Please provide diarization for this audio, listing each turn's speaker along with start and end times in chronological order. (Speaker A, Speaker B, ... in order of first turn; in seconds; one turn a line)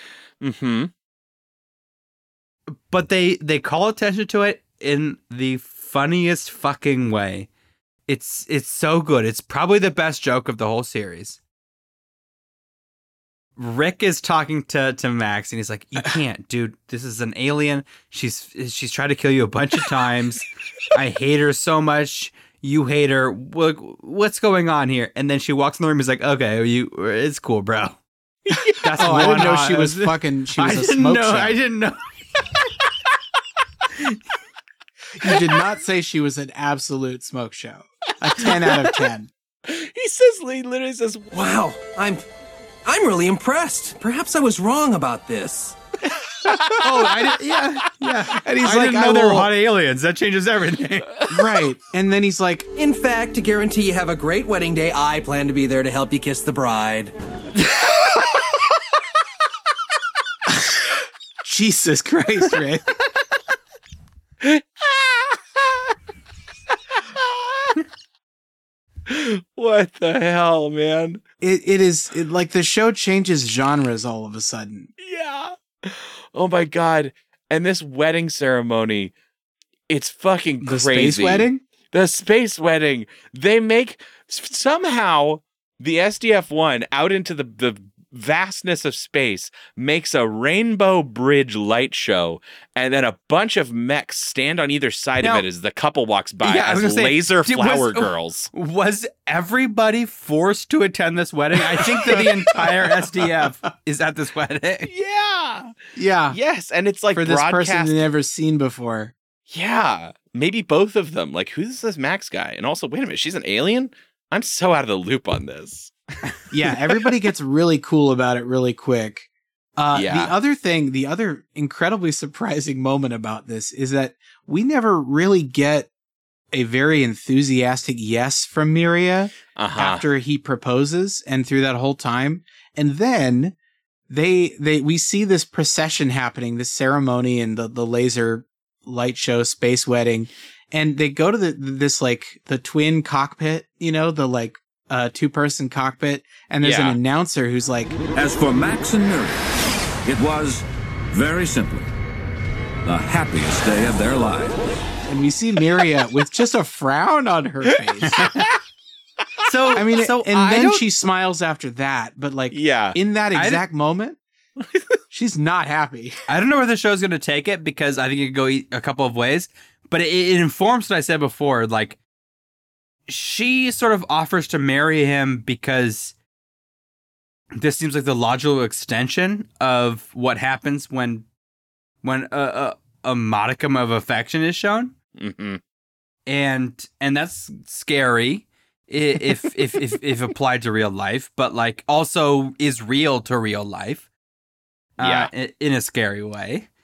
Speaker A: 0.4-0.9
Speaker B: 2.7-7.5
Speaker B: 8.1-11.4
Speaker B: 13.6-28.0
Speaker B: 28.8-32.7
Speaker C: 29.0-31.6
Speaker C: 35.2-39.3
Speaker A: 38.4-38.9
Speaker A: 39.7-41.3
Speaker D: 41.4-42.2
Speaker D: 42.9-45.7
Speaker A: 46.3-47.1
Speaker B: 46.8-51.3
Speaker C: 48.3-49.5
Speaker C: 51.3-52.7
Speaker D: 52.9-57.1
Speaker C: 61.4-62.9
Speaker A: 64.4-65.9
Speaker A: 67.0-67.8
Speaker A: 69.1-71.2
Speaker C: 71.4-74.9
Speaker A: 75.0-79.1
Speaker A: 79.9-98.5
Speaker C: 80.6-81.6
Speaker B: 96.4-104.9
Speaker C: 102.0-103.0
Speaker A: 104.9-105.8
Speaker C: 105.9-106.4
Speaker A: 106.3-108.0
Speaker C: 107.1-109.1
Speaker A: 109.5-116.4
Speaker C: 116.5-125.9
Speaker A: 119.9-120.3
Speaker C: 126.5-133.6
Speaker A: 129.6-130.0
Speaker C: 134.1-148.0
Speaker A: 146.6-147.0
Speaker E: 148.1-149.4
Speaker E: 150.1-151.9
Speaker E: 152.8-154.6
Speaker C: 155.1-158.3
Speaker B: 159.5-160.9
Speaker C: 159.8-164.2
Speaker A: 162.5-163.0
Speaker B: 163.3-163.6
Speaker C: 165.1-166.2
Speaker B: 166.3-172.0
Speaker B: 173.1-176.1
Speaker B: 177.6-181.3
Speaker B: 182.0-184.9
Speaker A: 185.2-185.6
Speaker B: 186.3-194.1
Speaker B: 195.0-196.7
Speaker A: 195.0-195.3